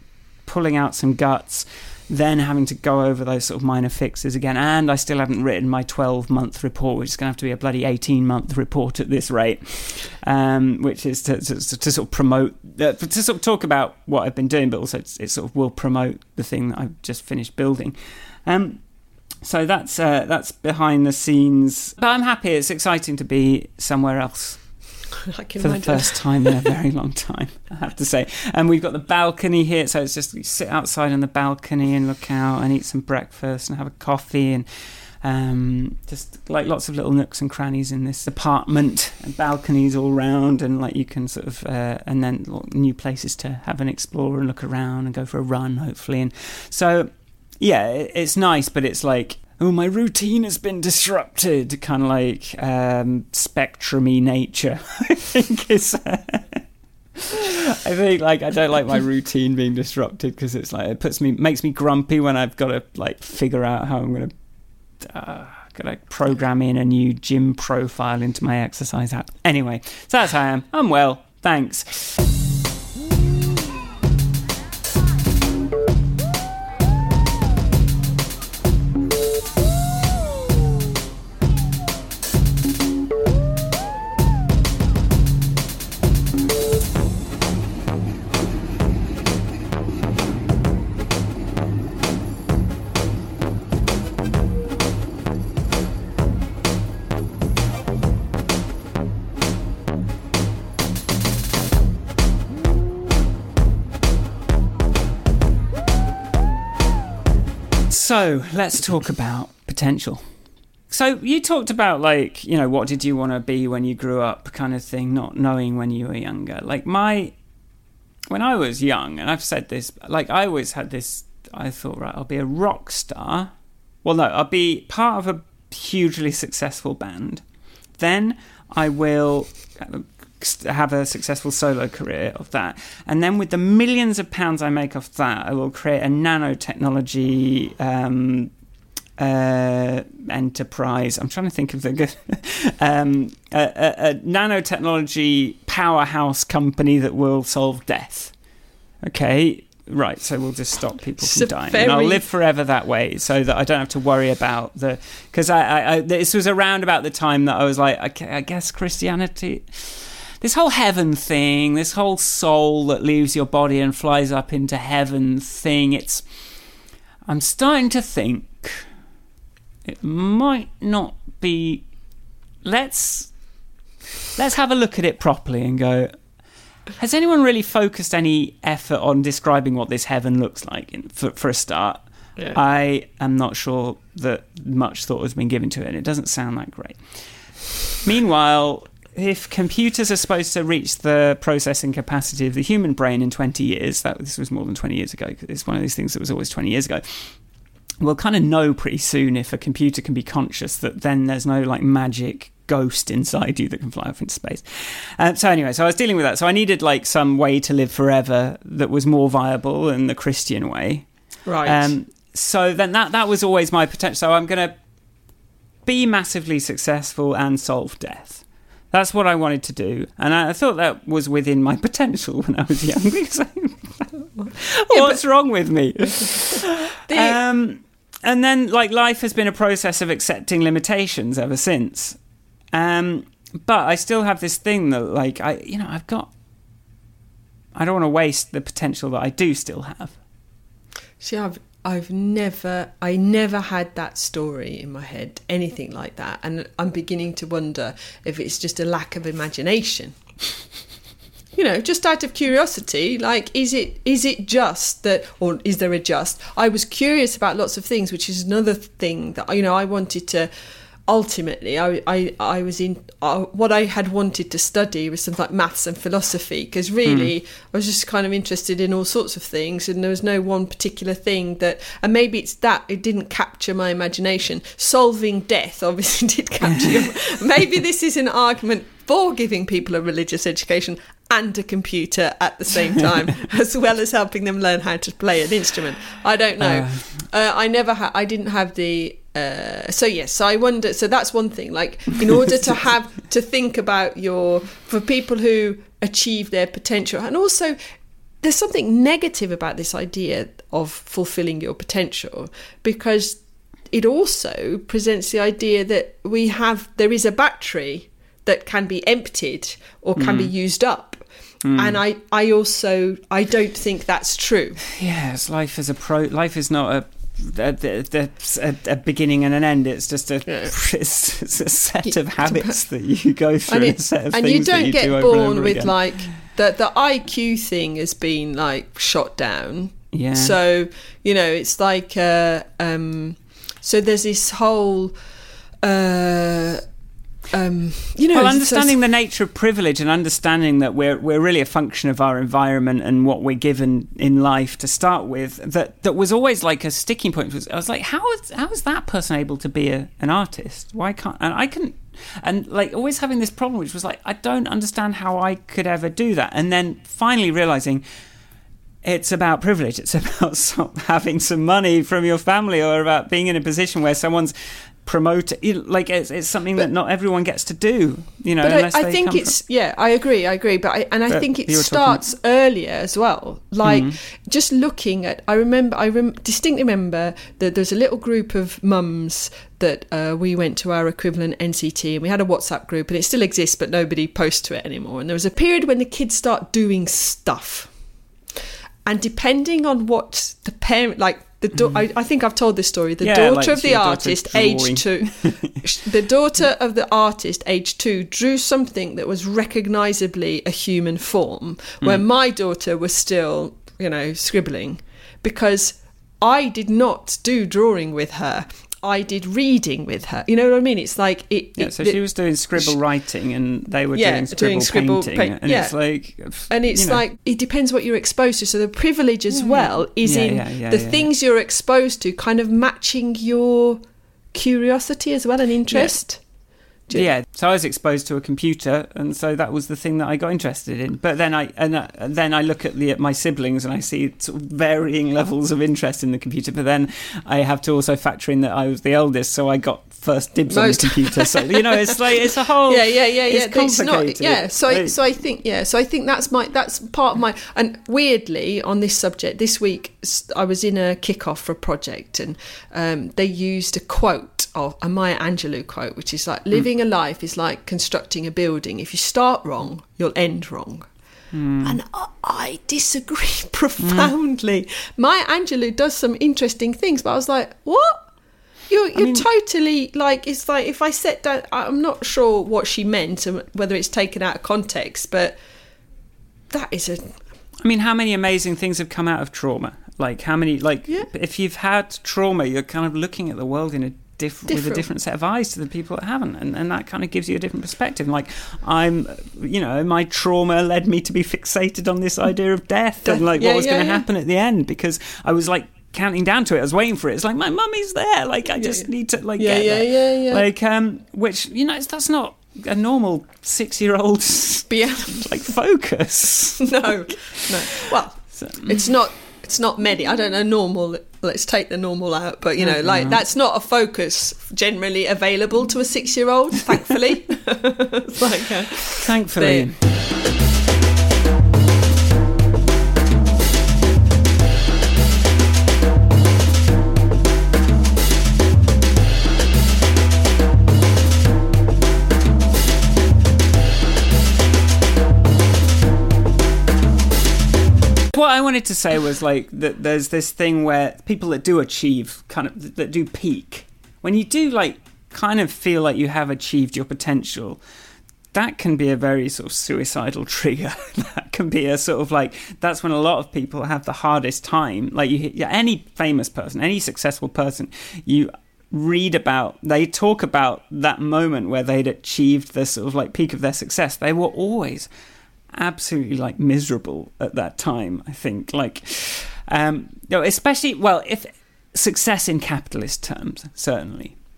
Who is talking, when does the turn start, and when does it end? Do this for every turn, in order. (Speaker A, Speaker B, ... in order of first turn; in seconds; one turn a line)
Speaker A: 0.4-18.8
Speaker A: 19.4-24.6
Speaker B: 25.3-26.7
Speaker A: 25.6-34.7
Speaker A: 35.2-56.6
Speaker A: 57.2-64.3
Speaker A: 65.0-72.2
Speaker A: 107.9-110.3
Speaker A: 110.9-117.4
Speaker A: 118.3-123.5
Speaker A: 124.0-127.4
Speaker A: 128.0-138.5
Speaker A: 139.2-148.3
Speaker A: 149.0-166.2
Speaker B: 151.2-152.2
Speaker A: 167.3-168.9
Speaker A: 169.8-171.8
Speaker A: 172.6-173.3
Speaker A: 174.3-176.1
Speaker A: 177.0-187.0
Speaker A: 188.0-197.3
Speaker A: 198.0-211.1
Speaker B: 211.5-211.9
Speaker A: 211.6-214.8
Speaker A: 215.9-232.2
Speaker B: 224.4-225.2
Speaker B: 227.1-227.4
Speaker A: 232.7-236.3
Speaker A: 237.8-240.2
Speaker B: 241.2-250.2
Speaker B: 251.6-260.5
Speaker B: 261.1-297.8
Speaker A: 267.1-267.3
Speaker A: 276.7-277.1
Speaker A: 286.6-287.1
Speaker B: 298.4-303.4
Speaker B: 303.9-311.2
Speaker A: 310.2-310.5
Speaker A: 311.6-312.0
Speaker B: 311.8-314.8
Speaker A: 314.9-326.0
Speaker B: 320.5-320.7
Speaker B: 322.0-322.8
Speaker B: 323.7-335.1
Speaker A: 330.1-330.6
Speaker B: 335.8-336.8
Speaker B: 337.5-339.0
Speaker A: 338.3-358.0
Speaker A: 359.0-369.6
Speaker B: 368.6-387.9
Speaker A: 371.3-372.2
Speaker A: 373.8-374.2
Speaker B: 389.1-412.2
Speaker A: 393.2-395.9
Speaker A: 411.8-417.2
Speaker B: 414.1-416.0
Speaker B: 416.7-424.0
Speaker A: 419.5-421.3
Speaker B: 424.5-426.4
Speaker A: 425.9-426.2
Speaker A: 427.1-445.1
Speaker B: 440.7-461.1
Speaker A: 461.5-462.0
Speaker B: 461.8-468.3
Speaker A: 464.0-464.3
Speaker B: 468.9-475.6
Speaker A: 469.1-469.5
Speaker B: 476.7-477.4
Speaker A: 477.8-509.1
Speaker B: 484.7-485.1
Speaker B: 493.2-494.2
Speaker B: 498.8-500.7
Speaker B: 504.9-505.6
Speaker B: 506.8-519.9
Speaker A: 512.8-513.4
Speaker A: 518.9-520.1
Speaker A: 538.3-547.8
Speaker A: 548.5-565.1
Speaker A: 565.7-574.4